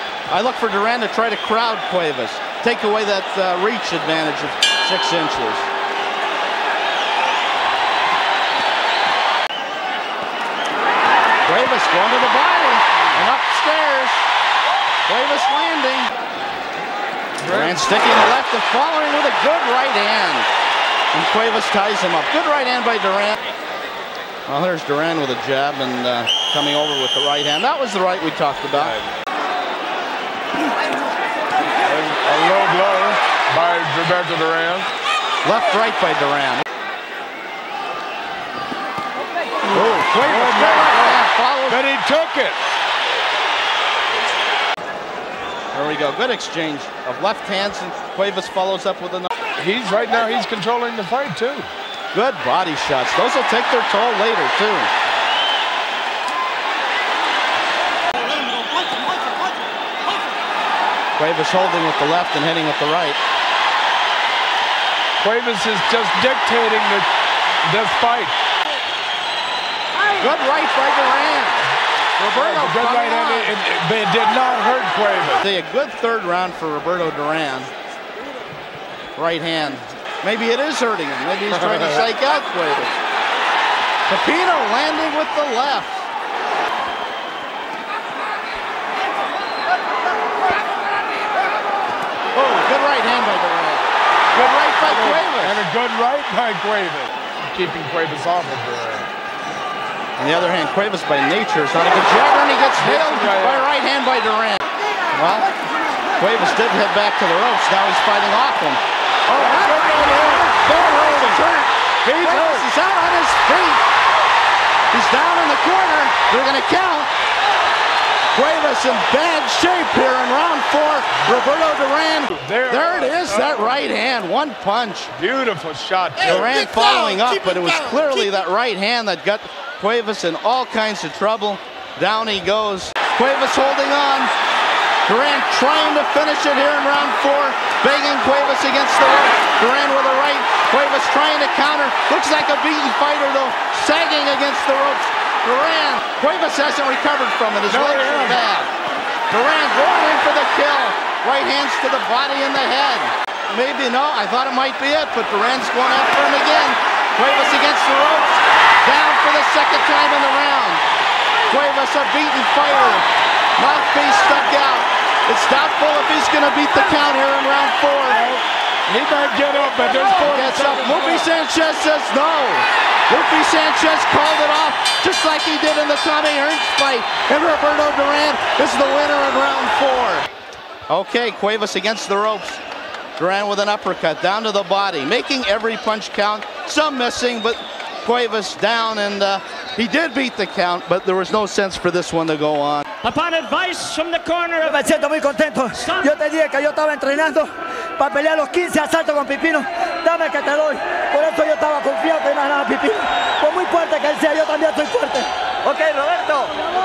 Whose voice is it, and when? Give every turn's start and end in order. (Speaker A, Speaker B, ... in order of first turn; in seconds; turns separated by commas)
Speaker A: 0.3-5.7, Speaker A: 11.4-14.2, Speaker A: 15.1-16.1, Speaker B: 17.4-18.0, Speaker A: 17.5-20.5, Speaker A: 21.1-23.4, Speaker A: 24.5-29.0, Speaker B: 31.9-34.9, Speaker A: 35.4-36.6, Speaker A: 39.7-41.8, Speaker B: 39.8-42.6, Speaker A: 45.7-49.3, Speaker B: 49.6-51.7, Speaker A: 52.1-54.9, Speaker A: 61.2-63.2, Speaker B: 65.2-67.1, Speaker B: 67.6-68.3, Speaker A: 70.1-73.5, Speaker B: 72.3-75.4, Speaker A: 75.4-77.7, Speaker A: 79.2-83.0, Speaker A: 84.0-86.1, Speaker A: 92.3-95.5, Speaker B: 94.8-99.1, Speaker A: 100.2-105.5, Speaker B: 102.8-103.7, Speaker A: 106.2-113.8, Speaker B: 109.3-111.4, Speaker B: 112.0-112.7, Speaker A: 114.9-117.1, Speaker A: 118.3-125.1, Speaker B: 122.3-123.8, Speaker B: 125.1-126.7, Speaker A: 126.2-134.3, Speaker A: 135.1-148.7, Speaker B: 147.7-148.4, Speaker A: 149.3-160.8, Speaker A: 161.5-168.2, Speaker B: 168.1-171.3, Speaker A: 170.0-180.3, Speaker A: 180.9-182.6, Speaker A: 183.2-192.9, Speaker C: 193.0-194.8, Speaker D: 194.6-206.6, Speaker C: 195.7-196.1